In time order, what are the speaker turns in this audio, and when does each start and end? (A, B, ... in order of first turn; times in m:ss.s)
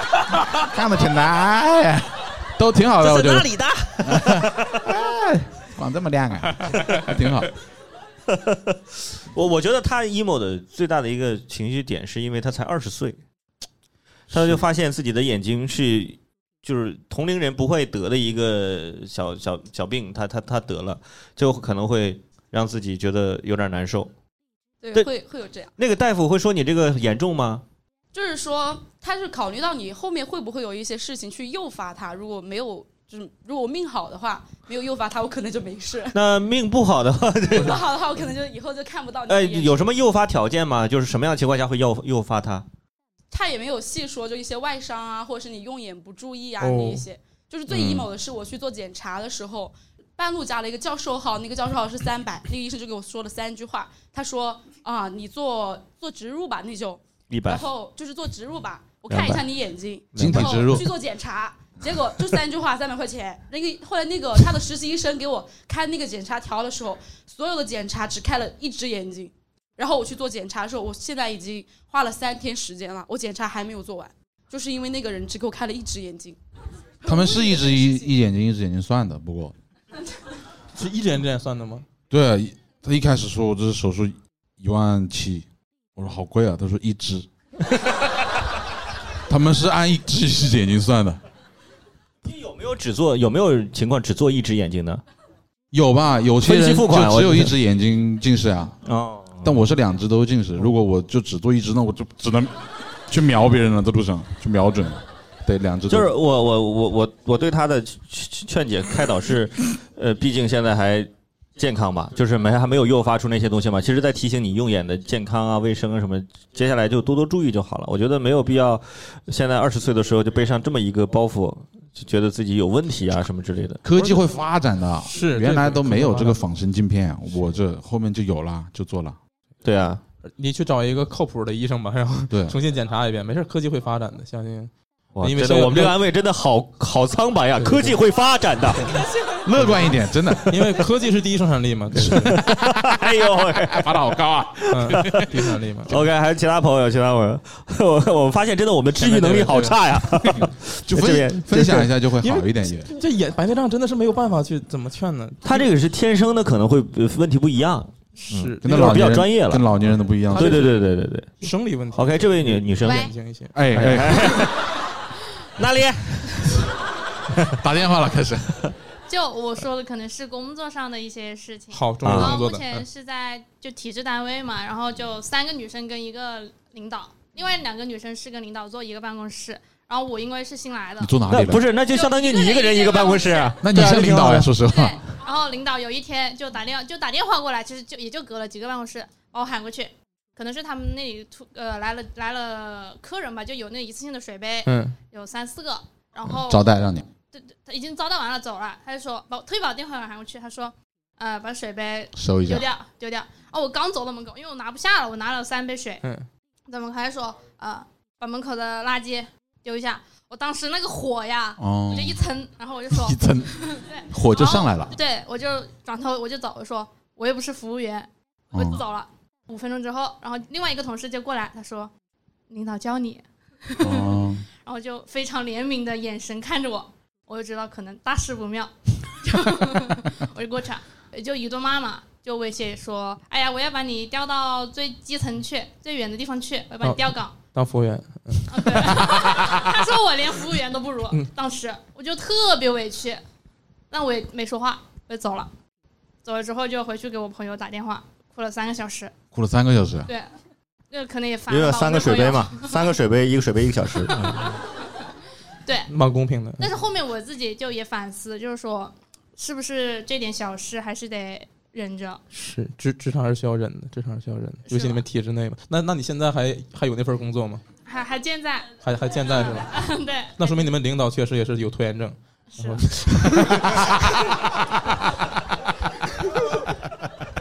0:00.6-0:07.5 A
0:03.0-0:04.7 B
0:08.3-0:13.2 B
0:14.3-0:14.6 A
0:14.3-0:24.1 B
0:24.8-0:25.7 C
0:25.8-0:27.6 B
0:28.1-0:36.2 C
0:36.1-0:37.8 B
0:37.5-0:39.9 C
0:39.3-0:42.6 B
0:43.3-1:16.4 C
0:46.6-0:47.0 D
0:47.7-0:48.1 B
0:57.3-0:57.7 B
0:59.1-0:59.5 B
1:00.2-1:00.7 B
1:00.2-1:00.9 A
1:17.0-1:18.1 C
1:17.0-1:19.5 A
1:20.7-1:21.8 D
1:22.1-1:27.3 A
1:29.3-1:31.2 A
1:32.2-1:35.0 B
1:35.7-1:38.8 A
1:36.4-1:37.5 B
1:38.8-1:39.6 B
1:39.4-1:42.5 A
1:43.1-1:46.1 A
1:45.9-2:03.8 B
2:03.8-2:09.2 A
2:05.0-2:06.4 D
2:09.6-2:10.0 B
2:10.2-2:16.0 D
2:12.3-2:12.6 A
2:15.2-2:19.0 B
2:17.6-2:18.0 D
2:18.9-2:19.8 D
2:19.4-2:20.7 A
2:20.4-2:22.4 D
2:21.9-2:22.5 A
2:22.1-2:23.9 B
2:23.7-2:25.4 A
2:24.7-2:26.0 D
2:25.0-2:25.3 B
2:25.9-2:31.9 B
2:29.0-2:30.5 D
2:30.9-2:32.9 A
2:32.2-2:35.7 D
2:35.4-2:39.7 B
2:38.2-2:38.9 D
2:38.6-2:40.7 A
2:40.3-2:41.4 B
2:40.3-2:40.9 D
2:41.4-2:44.1 D
2:41.9-2:43.1 B
2:43.5-2:44.4 A
2:43.7-2:44.8 B
2:45.6-2:46.7 B
2:47.5-2:48.7 A
2:49.1-3:01.2 E
2:51.7-2:52.8 D
2:52.0-2:52.4 B
3:01.0-3:01.7 A
3:01.3-3:04.6 B
3:01.8-3:03.6 E
3:03.6-3:05.0 A
3:04.6-3:16.7 E
3:14.6-3:15.0 D
3:16.4-3:17.0 A
3:17.3-3:26.0 E
3:22.1-3:22.6 A
3:26.7-3:41.9 E
3:31.6-3:32.2 A
3:32.9-3:35.0 A
3:38.5-3:38.8 A
3:42.5-3:57.4 E
3:43.8-3:44.4 A
3:56.8-3:59.4 D
3:58.5-4:03.2 E
4:03.9-4:05.5 E
4:06.2-4:09.1 E
4:09.3-4:10.1 A
4:10.1-4:10.3 E
4:10.9-4:12.8 E
4:11.5-4:14.5 B
4:15.6-4:15.9 E
4:15.9-4:16.7 D
4:16.6-4:22.2 E
4:22.3-4:27.6 D
4:24.7-4:25.0 E
4:27.8-4:30.7 E
4:28.8-4:29.8 D
4:30.4-4:34.0 D
4:32.5-4:32.9 E